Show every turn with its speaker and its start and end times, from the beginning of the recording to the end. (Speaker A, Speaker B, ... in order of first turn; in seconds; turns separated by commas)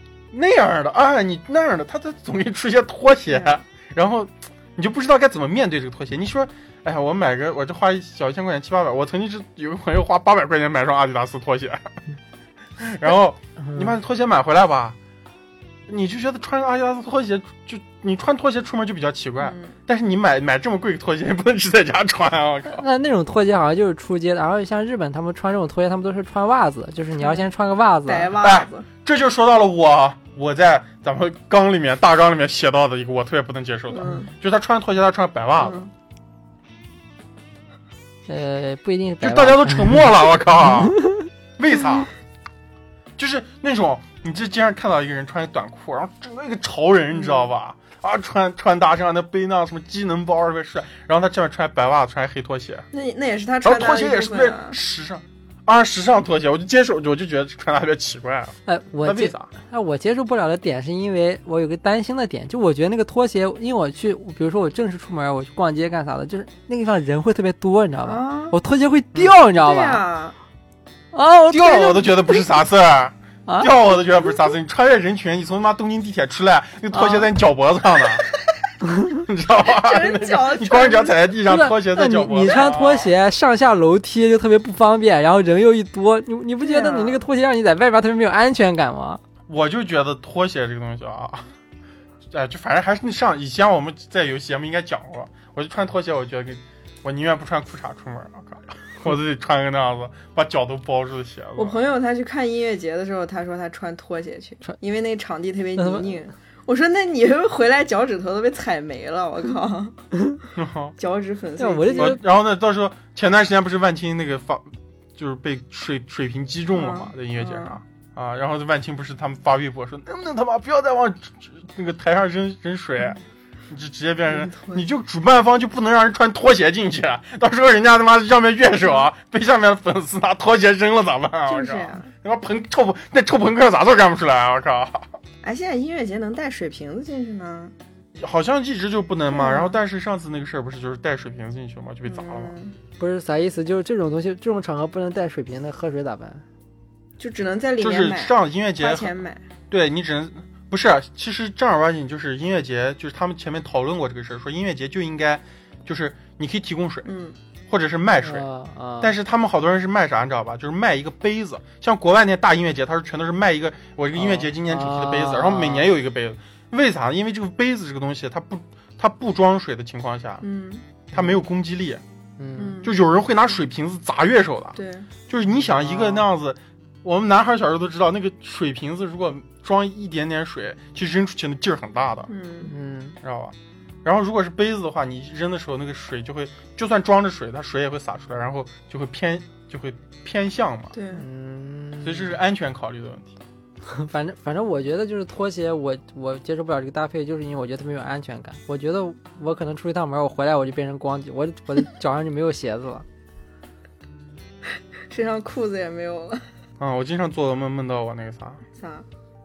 Speaker A: 0.3-11.9, Speaker B: 3.3-3.6, Speaker A: 12.8-15.0, Speaker C: 13.6-13.9, Speaker A: 15.9-22.9, Speaker B: 19.4-19.8, Speaker C: 22.7-28.3, Speaker B: 27.2-27.5, Speaker B: 28.1-28.9, Speaker A: 28.4-35.8, Speaker B: 33.9-34.3, Speaker B: 35.6-35.9, Speaker C: 38.3-41.3, Speaker A: 39.2-41.0, Speaker A: 41.6-42.1, Speaker A: 43.2-52.9, Speaker B: 47.2-47.5, Speaker B: 52.9-54.8, Speaker A: 53.6-59.5, Speaker C: 58.7-70.0, Speaker B: 68.0-68.6, Speaker B: 69.5-70.4, Speaker C: 71.1-72.5, Speaker A: 71.5-78.2, Speaker C: 73.5-73.7, Speaker C: 76.9-77.3, Speaker A: 79.1-83.1, Speaker B: 79.5-81.3, Speaker C: 81.5-89.2, Speaker B: 86.6-87.2, Speaker A: 89.5-91.5, Speaker A: 92.3-101.8, Speaker B: 101.6-110.0, Speaker C: 105.8-106.1, Speaker A: 110.5-111.0, Speaker B: 111.0-112.2, Speaker C: 111.6-112.2, Speaker A: 112.0-123.2, Speaker B: 116.7-117.8, Speaker A: 123.7-135.1, Speaker B: 124.3-124.9, Speaker B: 131.5-132.1, Speaker B: 135.4-137.8, Speaker A: 138.2-142.6, Speaker B: 139.3-139.8, Speaker B: 142.1-142.8, Speaker C: 143.0-146.4, Speaker B: 147.2-149.4, Speaker A: 147.8-149.2, Speaker A: 149.7-157.1, Speaker B: 157.1-157.4, Speaker A: 157.7-158.5, Speaker C: 158.2-159.2, Speaker A: 159.0-170.4, Speaker C: 164.2-165.9, Speaker B: 170.4-170.9, Speaker A: 171.1-172.0, Speaker C: 172.4-172.8, Speaker B: 172.6-172.9, Speaker A: 172.8-182.3, Speaker B: 174.8-175.1, Speaker C: 175.7-176.3, Speaker B: 182.3-182.7, Speaker C: 182.6-183.2, Speaker A: 183.2-190.9, Speaker B: 190.9-191.2, Speaker C: 191.1-192.3, Speaker A: 192.0-193.3, Speaker C: 193.8-203.1, Speaker B: 205.1-206.4, Speaker A: 206.8-208.6, Speaker B: 208.8-209.1